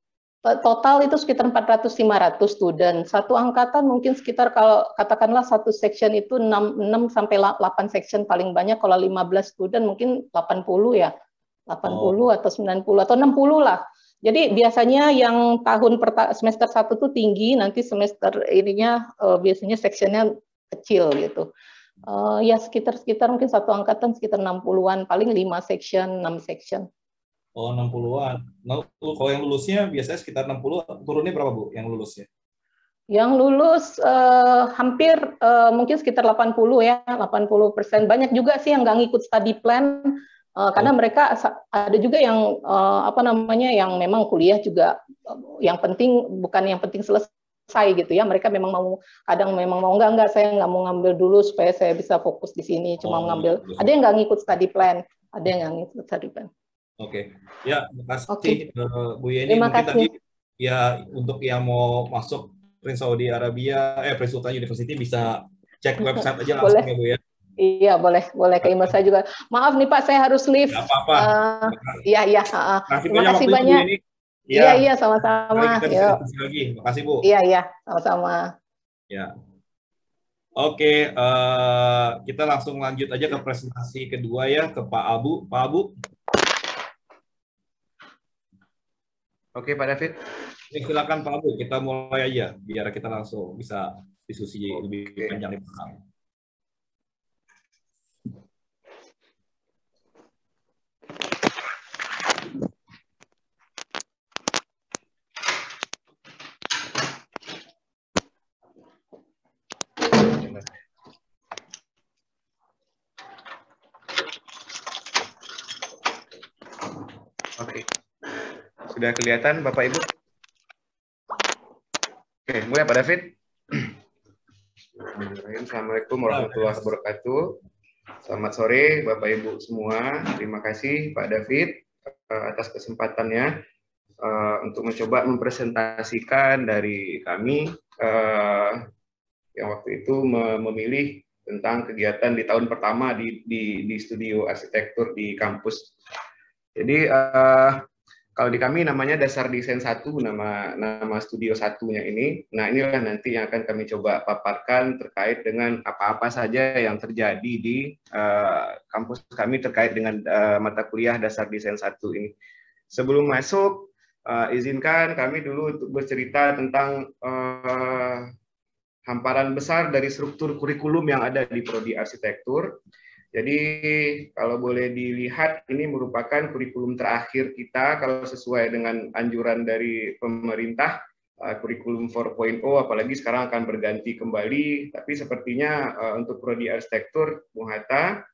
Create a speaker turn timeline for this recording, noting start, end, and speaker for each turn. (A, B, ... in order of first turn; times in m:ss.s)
0:00.4-0:11.1 A
0:11.7-0:21.5 A
0:11.9-0:12.2 B
0:22.0-0:26.9 A
0:27.6-0:32.3 B
0:33.1-0:56.5 A
0:53.0-0:53.9 B
0:57.0-1:07.2 B
0:58.3-0:58.6 A
0:59.5-1:00.1 A
1:06.0-1:06.9 A
1:07.6-1:13.9 A
1:10.7-1:12.1 B
1:12.9-1:14.9 B
1:14.5-1:16.2 A
1:15.5-1:17.3 B
1:17.2-1:18.5 A
1:20.6-1:25.9 B
1:29.6-1:30.2 C
1:30.7-1:36.0 B
1:50.2-1:50.6 C
1:57.6-1:57.9 C
1:58.4-2:00.1 C
2:02.5-2:04.0 C
2:05.0-2:07.6 C
2:06.3-2:06.8 B
2:08.2-2:13.5 C
2:14.2-2:18.9 C
2:19.6-2:25.9 C
2:26.8-2:27.8 C
2:28.4-2:42.3 C
2:42.9-2:48.3 C
2:49.1-2:52.8 C
2:53.3-3:08.2 C